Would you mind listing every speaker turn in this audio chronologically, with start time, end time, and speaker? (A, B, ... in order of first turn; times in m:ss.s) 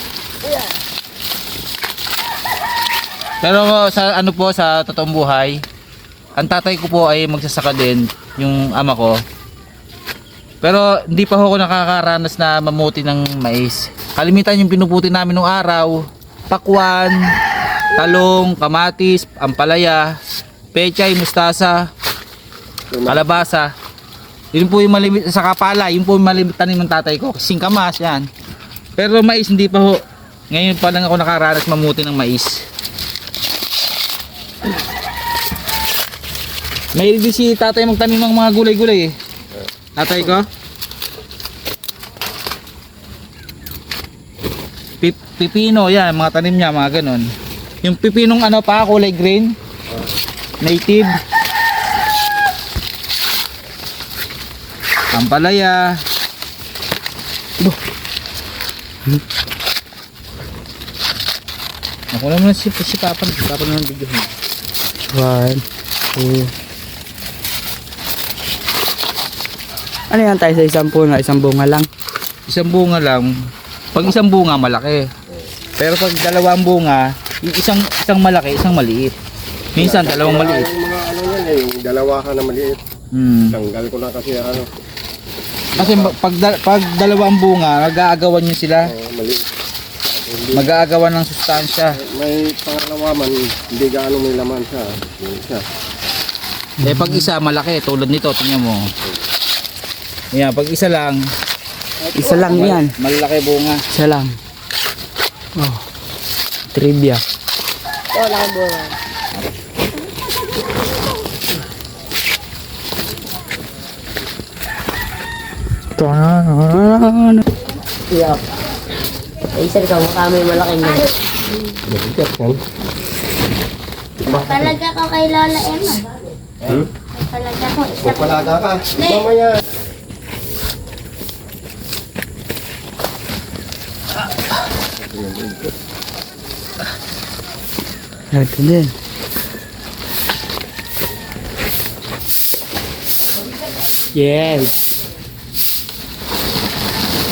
0:03.4-0:05.6 A
0:06.4-0:09.2 A
0:10.6-0:17.3 A
0:17.9-0:20.1 A
0:20.7-0:21.9 A
0:22.9-0:23.3 B
0:23.1-0:23.7 A
0:24.5-0:28.3 A
0:29.0-0:32.6 A
0:36.9-0:39.1 A
0:40.0-0:40.5 A
0:45.0-0:47.3 A
0:47.8-0:49.5 A
0:50.6-0:51.1 A
0:55.1-0:55.8 A
1:02.1-1:04.3 A
1:05.1-1:05.6 C
1:06.1-1:06.5 C
1:10.1-1:11.9 C
1:12.5-1:13.3 A
1:13.9-1:15.0 A
1:15.8-1:19.1 A
1:19.7-1:20.7 A
1:19.8-1:22.8 B
1:23.1-1:23.6 A
1:23.5-1:24.7 B
1:25.8-1:26.1 B
1:25.8-1:28.9 A
1:28.8-1:29.5 B
1:30.0-1:30.7 B
1:30.5-1:32.0 A
1:31.9-1:35.6 B
1:36.8-1:38.9 A
1:36.8-1:37.2 C
1:40.3-1:41.2 A
1:42.1-1:42.9 C
1:42.2-1:42.6 D
1:42.3-1:43.8 A
1:42.4-1:42.7 B
1:43.9-1:44.4 C
1:45.6-1:45.8 C
1:46.7-1:47.2 C
1:48.1-1:49.0 D
1:56.0-1:57.4 C
1:58.1-1:58.4 D
1:59.5-2:01.1 D
2:01.8-2:02.6 B
2:04.3-2:06.1 E
2:07.2-2:08.4 E
2:08.0-2:09.6 B
2:09.0-2:09.2 E
2:15.0-2:15.7 B
2:18.3-2:18.9 C
2:24.1-2:24.7 C